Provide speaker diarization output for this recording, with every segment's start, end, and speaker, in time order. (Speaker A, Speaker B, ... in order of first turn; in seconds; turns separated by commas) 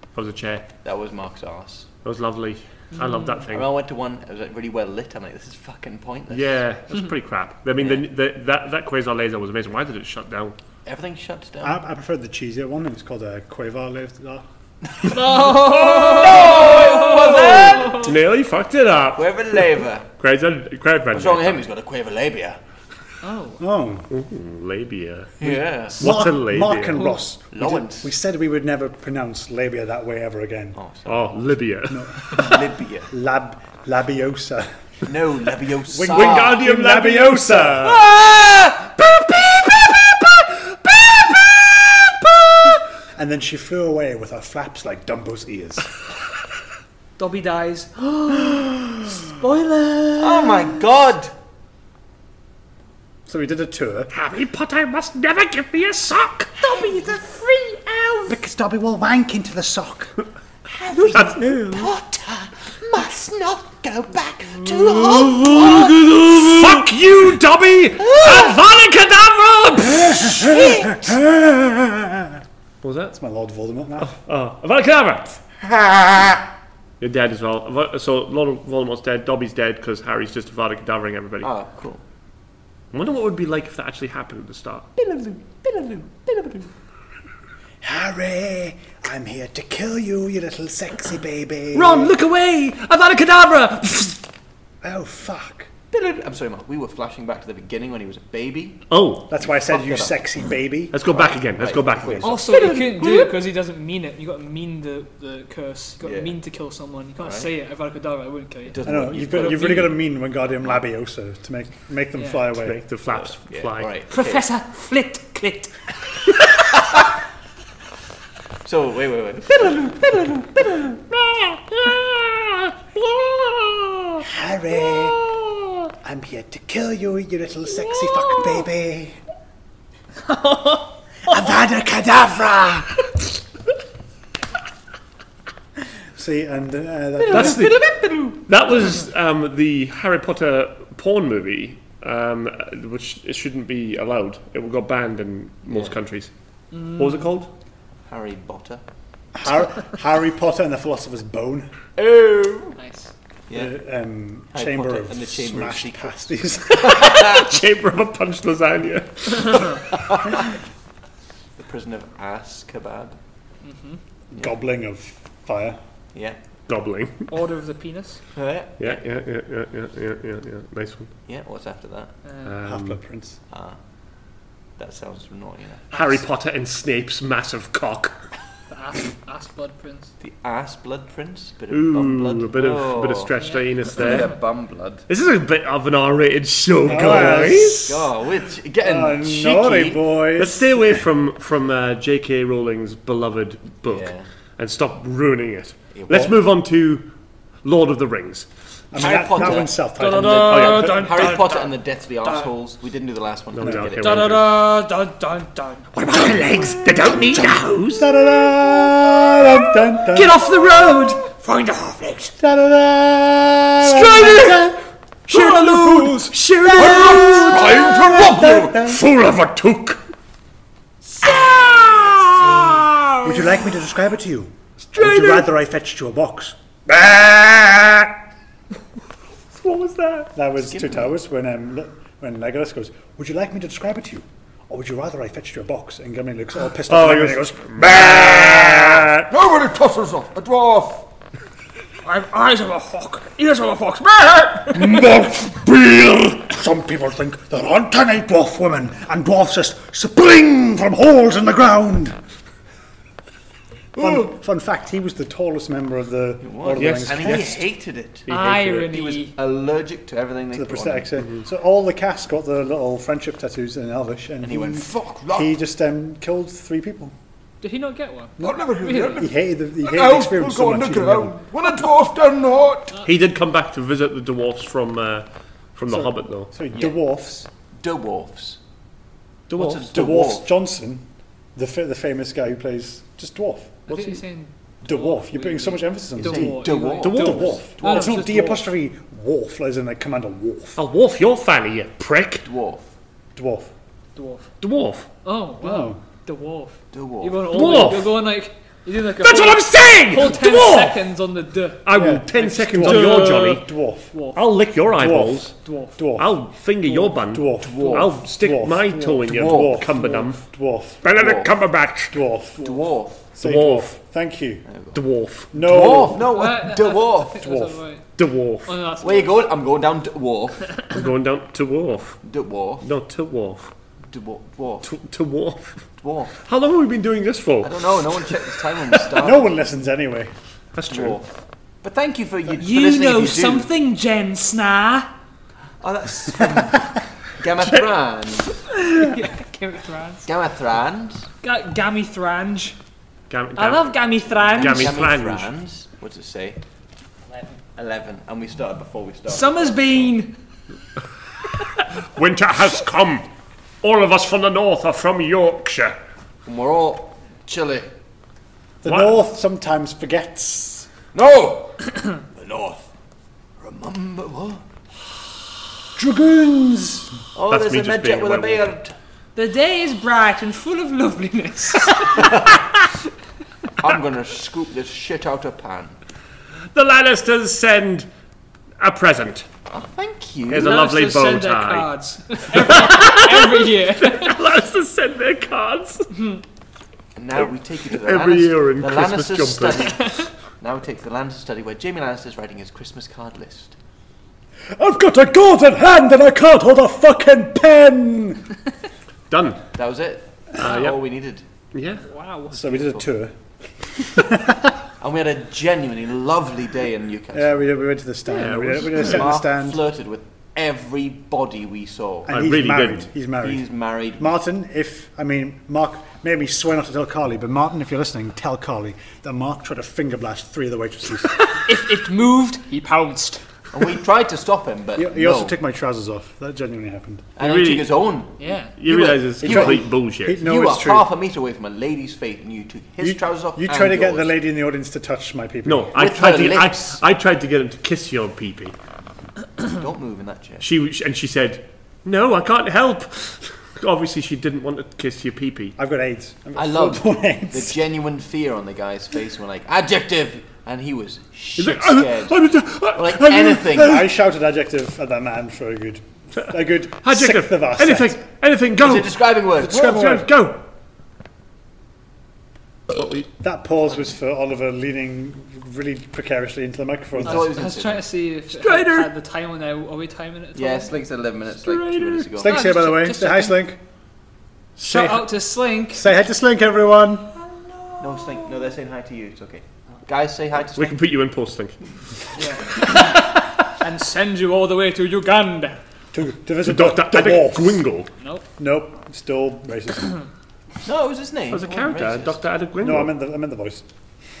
Speaker A: 0.1-0.7, Speaker B: 0.8-1.9, Speaker A: 2.0-3.7, Speaker C: 2.9-3.4, Speaker B: 3.5-6.6, Speaker A: 6.3-10.6, Speaker B: 7.8-8.0, Speaker B: 10.8-11.8, Speaker D: 11.6-14.4, Speaker C: 15.0-18.1, Speaker B: 15.7-18.1, Speaker A: 17.8-21.6, Speaker B: 19.1-20.1, Speaker B: 21.1-22.6, Speaker C: 23.2-23.6, Speaker D: 23.6-24.1, Speaker A: 24.1-27.0, Speaker B: 25.4-26.2, Speaker D: 25.5-30.8, Speaker B: 27.5-28.1, Speaker B: 30.7-31.4, Speaker A: 31.1-32.4, Speaker D: 31.9-34.7, Speaker B: 32.3-33.1, Speaker B: 35.0-36.7, Speaker D: 35.9-38.0, Speaker A: 36.0-38.0, Speaker B: 37.8-39.7, Speaker B: 40.8-41.6, Speaker D: 43.1-45.9, Speaker C: 47.2-50.8, Speaker B: 50.2-51.3, Speaker D: 53.2-54.1, Speaker A: 54.1-56.5, Speaker C: 56.6-58.4, Speaker D: 58.3-60.1, Speaker B: 60.7-66.4, Speaker A: 61.1-61.9, Speaker D: 65.1-66.2, Speaker A: 65.8-70.5, Speaker B: 68.0-68.6, Speaker D: 70.0-72.4, Speaker B: 70.3-71.0, Speaker A: 72.8-73.1, Speaker D: 73.1-74.1, Speaker A: 74.0-75.4, Speaker A: 77.0-81.5, Speaker B: 81.4-82.0, Speaker A: 82.9-84.9, Speaker B: 85.0-86.5, Speaker D: 87.8-92.2, Speaker A: 91.7-94.2, Speaker D: 94.8-95.7, Speaker B: 95.9-98.8, Speaker A: 98.9-99.3, Speaker D: 99.3-101.0, Speaker B: 99.3-100.2, Speaker A: 100.9-102.4, Speaker B: 101.1-103.3, Speaker D: 102.0-102.3, Speaker C: 102.2-108.8, Speaker B: 106.0-106.3, Speaker B: 107.2-107.5, Speaker B: 108.7-110.0, Speaker D: 108.8-112.8, Speaker C: 109.3-109.8, Speaker C: 112.2-112.4, Speaker A: 112.5-113.9, Speaker B: 113.1-114.4, Speaker C: 114.1-115.8, Speaker B: 116.5-117.0, Speaker B: 118.6-121.0, Speaker A: 121.3-124.2, Speaker D: 124.2-125.2, Speaker D: 126.0-129.2, Speaker C: 130.3-131.3, Speaker D: 131.3-133.1, Speaker D: 136.1-137.8, Speaker A: 137.3-137.7, Speaker B: 137.3-138.4, Speaker A: 138.5-146.3, Speaker B: 145.7-146.0, Speaker C: 146.7-147.3, Speaker A: 146.9-147.5, Speaker B: 148.1-148.8, Speaker D: 149.3-151.7, Speaker B: 152.0-152.8, Speaker C: 152.8-153.1, Speaker B: 153.5-153.7, Speaker D: 153.5-157.0, Speaker B: 154.5-157.6, Speaker A: 156.8-159.8, Speaker B: 159.8-160.4, Speaker B: 161.6-163.2, Speaker C: 163.6-164.0, Speaker D: 164.3-165.8, Speaker A: 166.7-167.3, Speaker C: 167.3-168.2, Speaker B: 168.3-169.0, Speaker A: 168.8-171.1, Speaker B: 171.3-172.1, Speaker C: 172.2-172.5, Speaker A: 172.4-173.0, Speaker D: 172.6-173.4, Speaker B: 173.5-173.8, Speaker B: 174.8-176.2, Speaker A: 175.9-178.1, Speaker C: 178.7-180.1, Speaker B: 180.2-183.3, Speaker A: 181.7-184.3, Speaker C: 183.3-183.8, Speaker B: 183.8-185.0, Speaker A: 185.1-188.1, Speaker D: 186.8-187.8, Speaker B: 186.9-190.1, Speaker D: 188.8-191.0, Speaker A: 190.3-197.1, Speaker B: 193.8-194.2, Speaker B: 195.9-196.3, Speaker A: 197.6-198.5, Speaker D: 198.9-201.3, Speaker B: 198.9-204.3, Speaker C: 200.0-201.7, Speaker A: 200.4-201.1, Speaker C: 202.2-202.5, Speaker A: 203.5-204.6, Speaker C: 204.0-206.5, Speaker A: 205.9-208.1, Speaker D: 206.2-210.4, Speaker C: 210.1-212.3, Speaker A: 210.2-211.2, Speaker D: 212.4-214.8, Speaker A: 213.8-214.6, Speaker A: 215.3-217.4, Speaker D: 215.3-219.1, Speaker E: 216.8-218.9, Speaker A: 218.8-220.0, Speaker A: 221.8-223.2, Speaker D: 223.2-228.1, Speaker A: 224.9-225.5, Speaker A: 229.5-230.3, Speaker D: 230.3-239.3, Speaker B: 230.6-231.1, Speaker A: 236.9-239.0, Speaker E: 239.3-241.1, Speaker C: 242.0-245.0, Speaker E: 244.7-245.2, Speaker D: 244.7-252.2, Speaker D: 254.0-257.6, Speaker B: 256.4-258.3, Speaker A: 256.8-257.4, Speaker A: 258.3-258.9, Speaker C: 258.3-259.4, Speaker B: 258.8-261.1, Speaker D: 260.5-267.1, Speaker B: 264.4-265.5, Speaker C: 267.6-269.3, Speaker E: 268.4-273.0, Speaker D: 269.1-271.4, Speaker A: 273.0-276.5, Speaker D: 275.9-277.5, Speaker B: 276.7-277.0, Speaker B: 277.7-278.6, Speaker A: 279.5-279.9, Speaker B: 279.5-280.5, Speaker D: 279.8-281.0, Speaker D: 281.5-283.8, Speaker C: 283.9-288.6, Speaker A: 283.9-284.2, Speaker D: 284.8-290.8, Speaker B: 286.2-288.2, Speaker A: 287.0-287.6, Speaker A: 290.8-292.4, Speaker B: 292.4-292.9, Speaker D: 293.3-293.7, Speaker C: 294.1-294.5, Speaker A: 294.6-295.1, Speaker C: 295.2-304.4, Speaker D: 295.6-296.0, Speaker B: 296.9-297.8, Speaker A: 297.5-298.2, Speaker A: 299.2-301.0, Speaker A: 301.8-303.7, Speaker D: 301.9-304.1, Speaker A: 304.3-305.5, Speaker D: 305.0-311.0, Speaker C: 305.6-306.0, Speaker A: 306.1-310.4, Speaker B: 307.6-308.2, Speaker B: 309.3-309.8, Speaker A: 311.0-312.2, Speaker B: 311.1-311.5, Speaker D: 312.1-312.7, Speaker B: 312.6-313.2, Speaker D: 313.3-314.6, Speaker A: 313.4-313.9, Speaker B: 314.7-315.0, Speaker A: 314.9-315.6, Speaker D: 315.5-316.3, Speaker B: 315.5-317.4, Speaker C: 316.3-318.0, Speaker D: 317.4-317.8, Speaker A: 318.2-318.7, Speaker C: 318.6-319.5, Speaker B: 319.0-320.7, Speaker A: 320.9-322.2, Speaker B: 322.2-322.8, Speaker A: 322.8-323.7, Speaker B: 324.1-324.9, Speaker A: 324.8-325.8, Speaker B: 326.0-326.3, Speaker A: 326.4-328.3, Speaker B: 327.6-329.6, Speaker D: 329.1-330.3, Speaker A: 330.7-331.2, Speaker B: 330.9-333.7, Speaker C: 332.6-335.1, Speaker B: 335.8-338.6, Speaker C: 338.7-340.2, Speaker B: 340.2-341.3, Speaker C: 341.4-342.8, Speaker A: 343.3-343.9, Speaker C: 343.6-345.0, Speaker B: 344.5-346.6, Speaker A: 344.5-345.5, Speaker B: 347.8-350.1, Speaker C: 349.3-350.3, Speaker A: 352.1-353.3, Speaker A: 353.8-356.0, Speaker B: 356.4-357.9, Speaker D: 358.8-360.9, Speaker A: 358.9-359.2, Speaker B: 361.1-362.9, Speaker B: 363.6-364.6, Speaker D: 365.9-367.1, Speaker B: 367.3-368.9, Speaker A: 367.5-368.8, Speaker C: 369.3-372.4, Speaker B: 372.1-372.6, Speaker B: 373.8-376.0, Speaker A: 376.7-378.1, Speaker A: 378.8-379.5, Speaker B: 379.7-380.9, Speaker A: 380.5-381.9, Speaker C: 380.6-384.4, Speaker A: 382.5-386.1, Speaker C: 386.1-386.4, Speaker B: 387.1-393.8, Speaker A: 387.4-390.1, Speaker D: 394.7-398.5, Speaker A: 399.3-399.6, Speaker B: 399.7-401.4, Speaker A: 400.6-401.1, Speaker A: 401.7-402.0, Speaker C: 402.0-402.7, Speaker D: 402.5-403.3, Speaker B: 402.6-403.0, Speaker D: 403.9-404.7, Speaker B: 405.0-407.7, Speaker D: 407.3-409.8, Speaker A: 408.3-409.2, Speaker B: 408.9-412.3, Speaker D: 412.3-413.6, Speaker A: 412.3-413.1, Speaker B: 413.4-414.4, Speaker D: 414.2-421.4, Speaker C: 421.4-423.4, Speaker B: 423.7-425.6, Speaker D: 424.9-427.3, Speaker B: 427.4-434.3, Speaker A: 427.4-428.0, Speaker C: 428.4-428.7, Speaker A: 428.8-430.4, Speaker D: 429.4-431.1, Speaker D: 433.0-435.9, Speaker A: 435.6-438.7, Speaker B: 435.9-437.0, Speaker B: 439.6-440.6, Speaker A: 440.6-445.8, Speaker D: 445.8-447.8, Speaker B: 446.5-452.4, Speaker A: 451.6-453.8, Speaker B: 452.9-454.1, Speaker D: 453.7-458.2, Speaker A: 457.0-460.6, Speaker B: 458.8-459.9, Speaker D: 459.6-460.3, Speaker A: 462.9-463.3, Speaker D: 463.4-467.5, Speaker B: 467.1-468.1, Speaker C: 467.2-470.9, Speaker A: 468.6-469.1, Speaker B: 470.5-472.6, Speaker A: 471.5-472.3, Speaker D: 472.4-473.8, Speaker C: 472.4-473.6, Speaker D: 474.8-475.2, Speaker C: 474.8-476.1, Speaker D: 475.9-477.3, Speaker B: 478.0-481.0, Speaker A: 480.7-481.8, Speaker C: 482.4-485.8, Speaker D: 486.1-487.9, Speaker A: 486.6-488.1, Speaker D: 488.6-490.1, Speaker B: 490.8-492.4, Speaker A: 491.5-493.1, Speaker D: 492.8-493.9